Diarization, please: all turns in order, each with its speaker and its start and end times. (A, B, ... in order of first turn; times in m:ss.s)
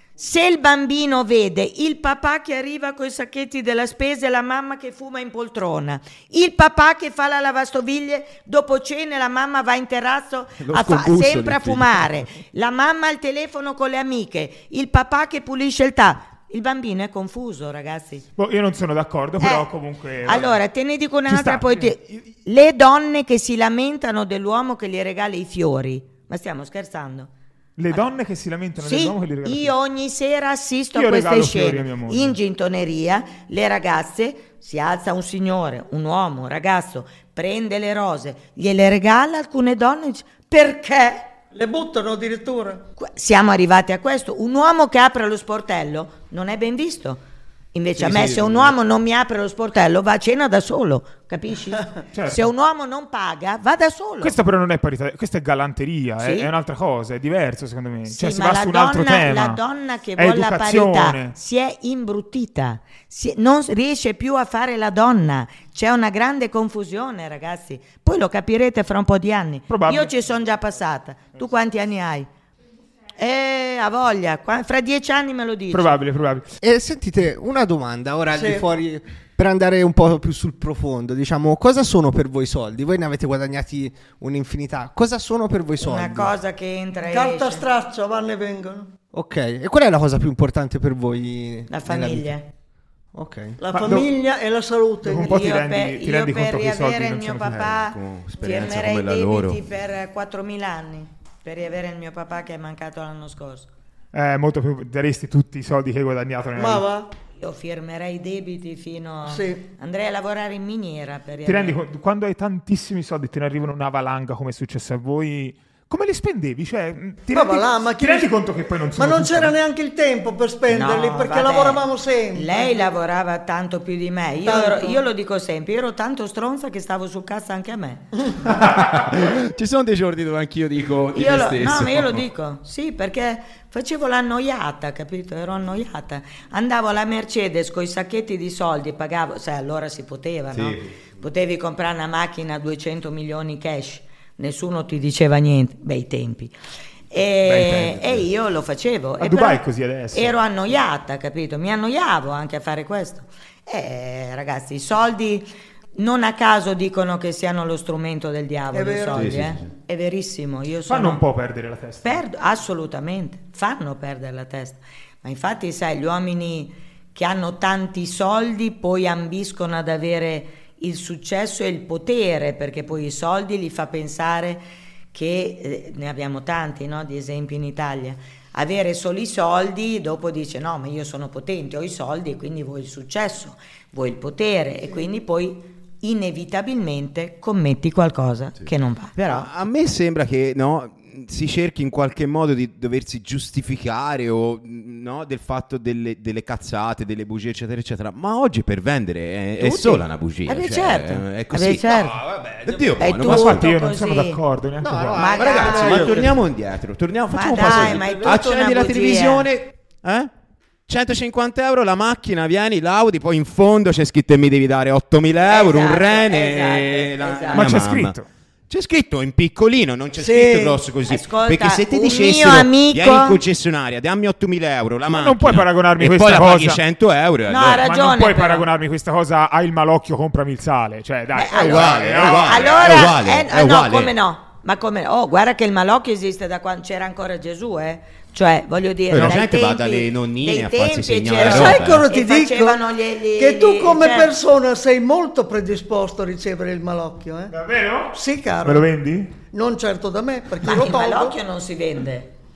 0:00.2-0:18.3 A
0:10.6-0:12.2 B
0:18.4-0:20.6 C
0:19.4-0:19.7 A
0:20.2-0:27.3 A
0:21.3-0:22.0 C
0:27.8-0:29.7 C
0:28.8-0:41.3 A
0:30.9-0:32.4 C
0:41.5-0:42.8 D
0:43.0-0:47.2 A
0:47.7-0:54.4 A
0:48.0-0:48.7 B
0:52.1-0:52.4 C
0:54.2-0:59.6 C
0:56.2-0:56.5 A
0:58.1-1:12.3 A
1:00.2-1:01.4 C
1:09.7-1:10.2 C
1:13.2-1:16.0 A
1:15.7-1:16.5 C
1:16.6-1:26.3 E
1:18.4-1:18.6 D
1:25.8-1:27.6 A
1:27.1-1:28.9 D
1:29.1-1:32.3 E
1:31.7-1:32.5 A
1:33.1-1:33.6 E
1:33.6-1:35.3 D
1:33.7-1:34.1 C
1:35.0-1:37.6 C
1:35.2-1:43.7 A
1:37.5-1:39.6 B
1:44.1-1:46.9 C
1:46.6-1:47.1 D
1:47.4-1:51.8 A
1:49.3-1:49.6 D
1:51.5-1:59.6 C
1:57.3-1:58.3 D
1:59.0-2:02.9 D
2:00.7-2:08.1 A
2:04.4-2:05.0 D
2:08.4-2:12.3 B
2:11.1-2:26.5 A
2:20.5-2:21.0 B
2:27.1-2:41.2 A
2:27.5-2:28.2 B
2:29.2-2:30.4 C
2:38.7-2:39.4 D
2:39.2-2:39.6 B
2:40.9-2:42.2 C
2:42.0-3:09.5 A
3:09.2-3:23.7 B
3:19.6-3:22.2 A
3:22.2-3:22.9 E
3:23.0-3:24.4 A
3:23.2-3:25.3 C
3:24.8-3:26.4 E
3:25.2-3:26.3 A
3:25.3-3:30.3 B
3:27.3-3:29.5 A
3:27.6-3:28.4 E
3:30.9-3:38.2 B
3:35.5-3:37.8 A
3:37.5-3:38.3 C
3:38.7-3:47.9 B
3:40.2-3:40.8 D
3:41.0-3:43.4 A
3:45.1-3:46.8 C
3:47.5-3:48.7 A
3:47.8-3:52.8 C
3:51.3-4:04.3 A
3:51.5-3:54.1 B
3:59.1-4:02.0 B
4:01.4-4:02.8 D
4:03.4-4:07.5 D
4:07.5-4:09.3 C
4:08.1-4:08.9 D
4:09.5-4:11.4 D
4:10.6-4:12.3 A